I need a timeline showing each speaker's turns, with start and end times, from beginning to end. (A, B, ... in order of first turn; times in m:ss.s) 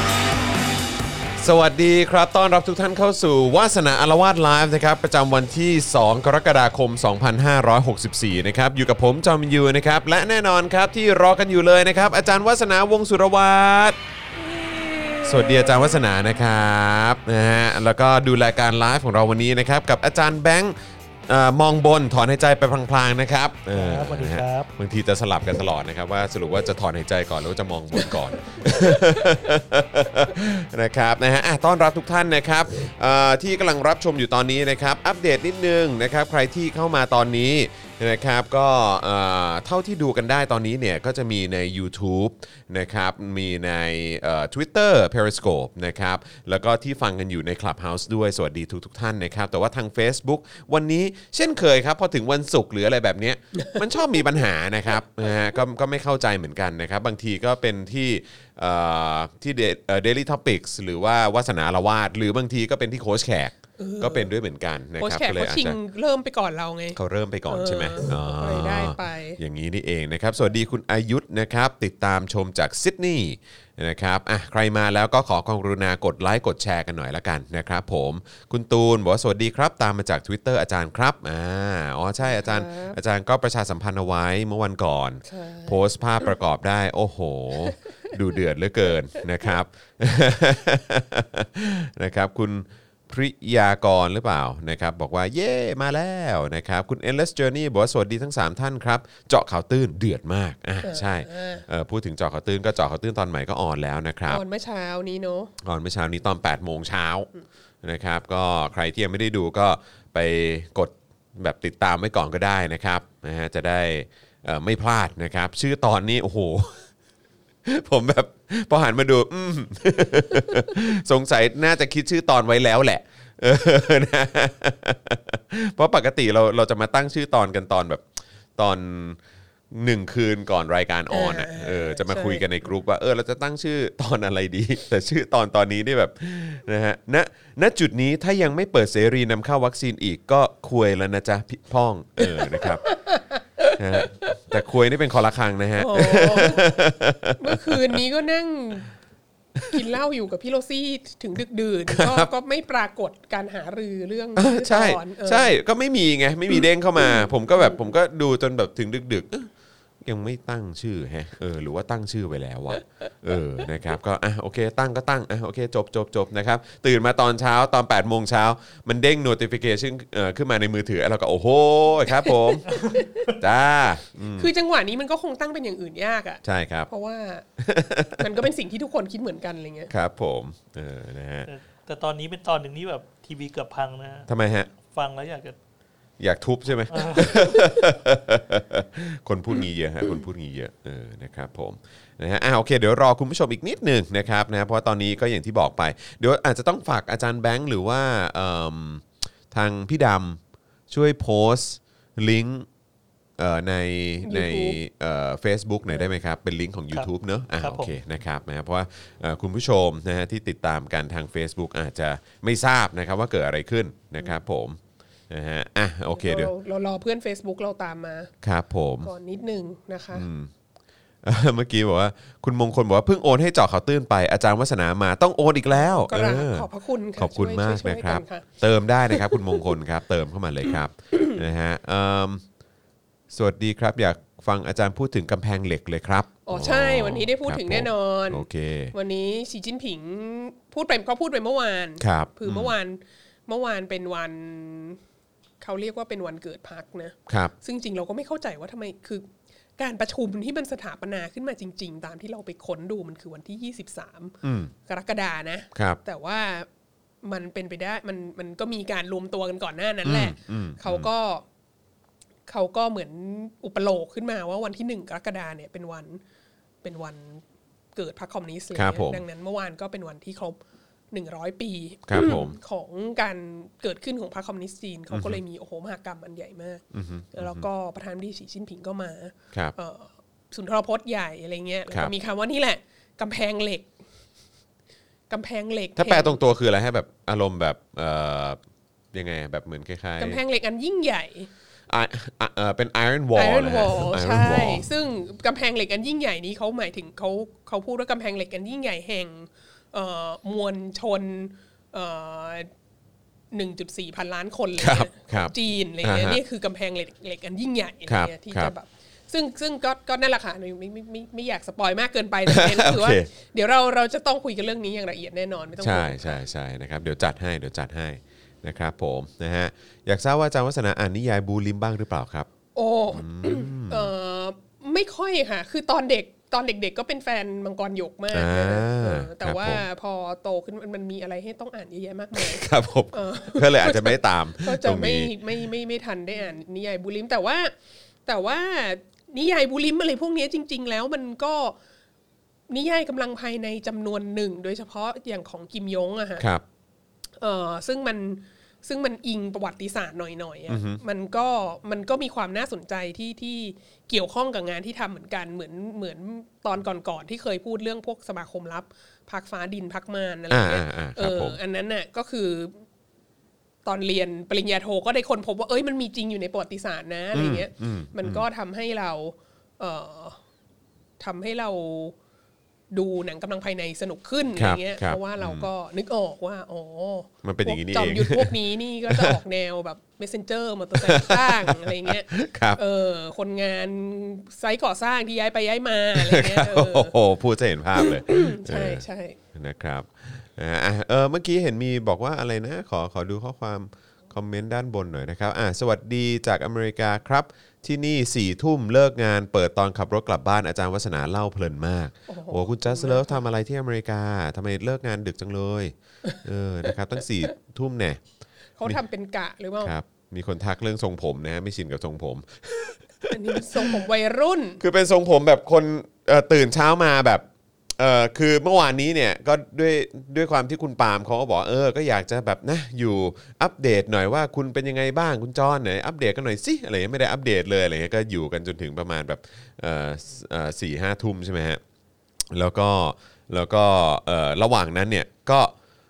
0:01.4-0:14.0 A
0:14.4-0:16.0 B
0:15.2-0:20.7 A
0:21.3-1:05.8 A
0:23.7-0:24.7 C
1:03.8-1:04.3 B
1:05.0-1:09.4 B
1:06.9-1:44.4 A
1:22.2-1:23.0 B
1:25.2-1:25.8 B
1:40.8-1:41.6 B
1:44.3-1:45.5 B
1:45.6-1:47.3 A
1:47.8-1:56.9 A
1:57.6-2:09.2 A
2:09.7-2:22.8 A
2:11.1-2:12.5 B
2:22.2-2:24.6 B
2:23.8-2:28.0 A
2:25.8-2:26.8 B
2:27.4-2:28.9 B
2:29.7-2:35.6 B
2:31.9-2:32.3 A
2:34.4-2:39.5 A
2:36.5-2:37.8 B
2:40.0-2:54.5 A
2:52.1-2:53.3 B
2:54.4-2:57.5 B
2:56.4-2:56.9 A
2:57.6-2:58.4 A
2:58.1-2:59.9 B
2:59.9-3:01.5 A
3:01.5-3:04.3 C
3:04.3-3:04.7 A
3:04.9-3:05.6 C
3:06.2-3:22.7 A
3:06.9-3:07.7 C
3:23.4-3:36.5 A
3:24.2-3:24.8 B
3:26.9-3:28.0 C
3:36.1-3:38.3 B
3:38.4-3:39.1 A
3:39.0-3:40.3 B
3:40.1-3:40.5 A
3:41.2-3:52.4 A
3:45.7-3:48.6 B
3:49.1-3:49.7 B
3:51.1-3:51.4 B
3:53.3-3:58.9 A
3:56.4-4:05.0 B
4:02.0-4:02.7 A
4:05.6-4:16.7 B
4:07.3-4:07.5 A
4:14.4-4:14.7 A
4:17.2-4:21.4 B
4:20.0-4:21.1 A
4:22.5-4:26.2 B
4:26.8-4:27.4 B
4:28.0-4:30.6 B
4:28.7-4:29.2 A
4:31.1-4:43.9 B
4:32.1-4:32.6 A
4:35.1-4:35.4 A
4:36.9-4:37.7 A
4:45.3-4:46.4 B
4:46.0-4:48.6 A
4:49.1-4:50.4 A
4:50.2-4:51.5 B
4:51.9-4:54.8 A
4:53.3-5:02.7 B
5:03.5-5:16.4 B
5:04.8-5:06.4 A
5:08.1-5:08.7 A
5:12.5-5:13.3 A
5:15.8-5:22.5 A
5:22.7-5:37.7 B
5:23.1-5:24.1 A
5:28.3-5:29.8 A
5:32.3-5:35.3 A
5:38.2-5:41.8 B
5:42.7-5:46.5 B
5:46.4-5:46.6 A
5:47.4-6:02.8 B
5:50.7-5:51.0 A
6:00.5-6:01.6 A
6:03.8-6:10.4 B
6:07.3-6:08.4 A
6:11.2-6:12.2 B
6:12.9-6:27.2 B
6:14.6-6:15.7 A
6:17.4-6:18.6 A
6:19.1-6:19.4 A
6:20.9-6:22.8 A
6:26.1-6:29.0 A
6:27.9-6:29.4 B
6:29.5-6:48.2 A
6:42.3-6:43.4 B
6:48.8-6:49.9 B
6:49.8-6:54.0 A
6:53.3-6:54.8 B
6:54.8-6:57.4 A
6:58.0-7:11.8 A
7:12.5-7:15.7 A